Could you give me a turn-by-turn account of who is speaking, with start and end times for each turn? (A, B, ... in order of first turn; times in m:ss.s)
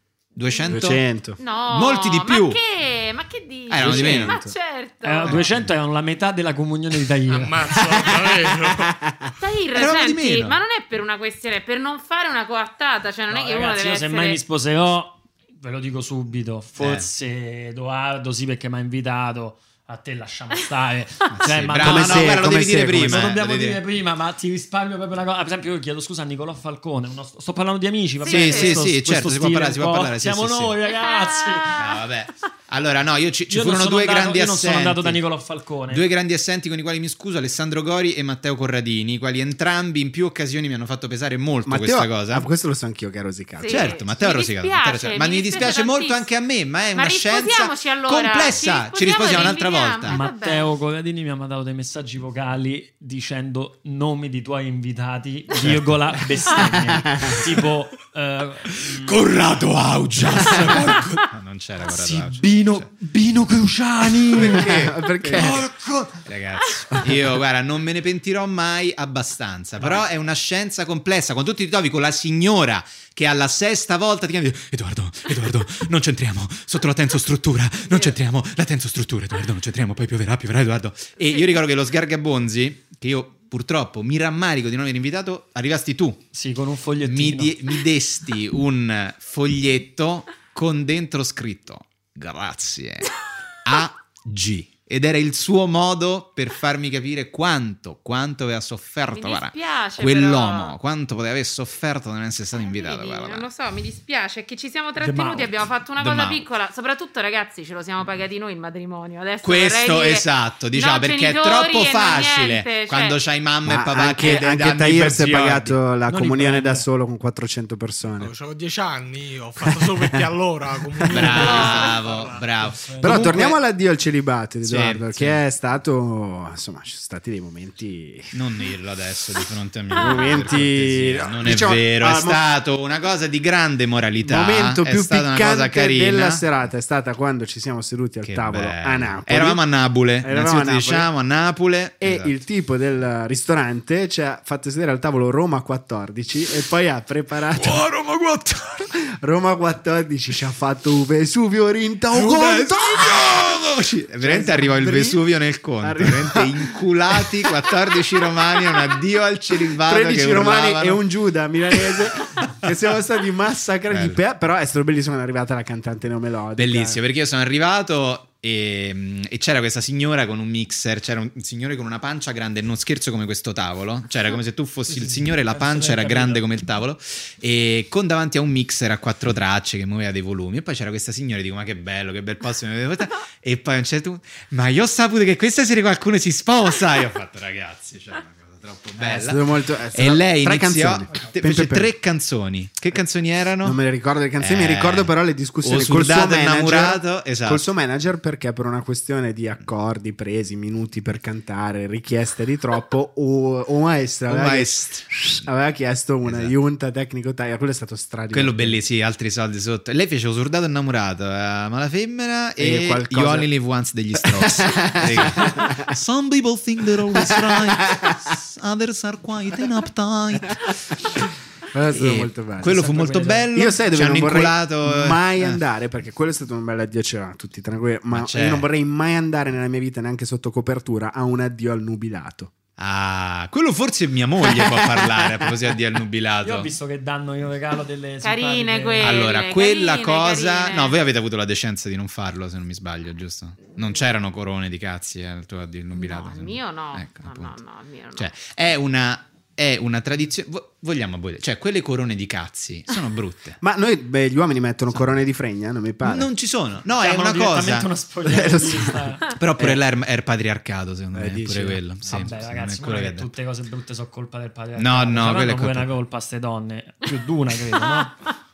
0:00.4-0:01.0 A
0:00.7-0:01.4 B
0:01.4-0:05.5 C
0:01.7-0:02.6 A
0:03.7-0:04.4 A
0:03.8-0:04.5 B
0:05.0-0:07.8 D
0:05.3-0:05.7 A
0:07.3-0:09.0 E
0:08.6-0:09.3 B
0:09.4-0:14.4 C
0:09.7-0:10.6 A
0:13.3-0:31.9 D
0:16.8-0:17.1 A
0:21.3-0:23.8 A
0:21.8-0:23.3 B
0:28.2-0:28.8 C
0:28.3-0:30.8 A
0:30.9-0:31.8 C
0:31.8-0:35.2 A
0:33.5-0:36.0 D
0:35.9-0:42.5 A
0:41.7-0:44.0 B
0:43.6-0:46.3 C
0:43.7-0:50.2 A
0:46.9-0:50.7 C
0:50.1-0:59.2 D
0:55.6-0:56.0 A
0:56.9-0:57.4 B
0:58.9-1:02.9 A
1:00.4-1:01.2 D
1:00.8-1:01.1 E
1:01.8-1:06.2 D
1:04.3-1:05.7 A
1:04.4-1:05.7 B
1:06.2-1:26.2 A
1:26.3-1:27.8 D
1:27.0-1:43.5 A
1:39.1-1:40.8 C
1:42.6-1:53.2 C
1:45.0-1:45.5 D
1:46.0-1:46.4 A
1:49.4-1:55.8 A
1:53.7-1:58.3 B
1:56.1-1:56.8 D
1:58.2-2:02.3 E
1:59.6-2:00.2 B
2:01.0-2:01.5 B
2:01.1-2:03.5 A
2:01.3-2:03.6 D
2:01.5-2:01.9 C
2:03.0-2:08.3 B
2:04.6-2:05.4 A
2:08.3-2:16.5 A
2:09.9-2:12.4 B
2:14.2-2:19.6 B
2:18.2-2:22.3 A
2:20.2-2:21.1 B
2:22.0-2:27.9 B
2:27.6-2:28.9 A
2:28.9-2:33.6 B
2:32.1-2:41.0 A
2:34.2-2:35.2 B
2:35.8-2:37.5 B
2:39.7-2:47.0 B
2:43.9-2:44.2 A
2:46.6-3:13.8 A
2:54.9-2:56.4 D
3:09.0-3:11.9 B
3:13.6-3:28.8 B
3:14.4-3:15.1 A
3:15.6-3:17.7 A
3:24.3-3:25.4 A
3:26.2-3:26.5 A
3:28.3-3:40.8 A
3:32.6-3:33.5 B
3:34.2-3:35.9 B
3:37.2-3:38.2 B
3:41.7-3:42.9 B
3:41.9-3:45.6 A
3:42.6-3:43.5 D
3:43.5-3:52.5 B
3:48.1-3:48.7 A
3:52.8-3:56.7 A
3:54.6-3:55.2 B
3:56.4-3:59.3 D
3:58.2-4:01.0 C
3:59.0-4:07.6 A
4:06.0-4:08.3 C
4:08.2-4:13.6 A
4:13.6-4:16.3 B
4:16.0-4:17.9 A
4:16.9-4:19.3 D
4:18.2-4:19.1 B
4:19.3-4:23.3 A
4:21.1-4:21.8 B
4:22.0-4:28.2 D
4:24.8-4:25.9 A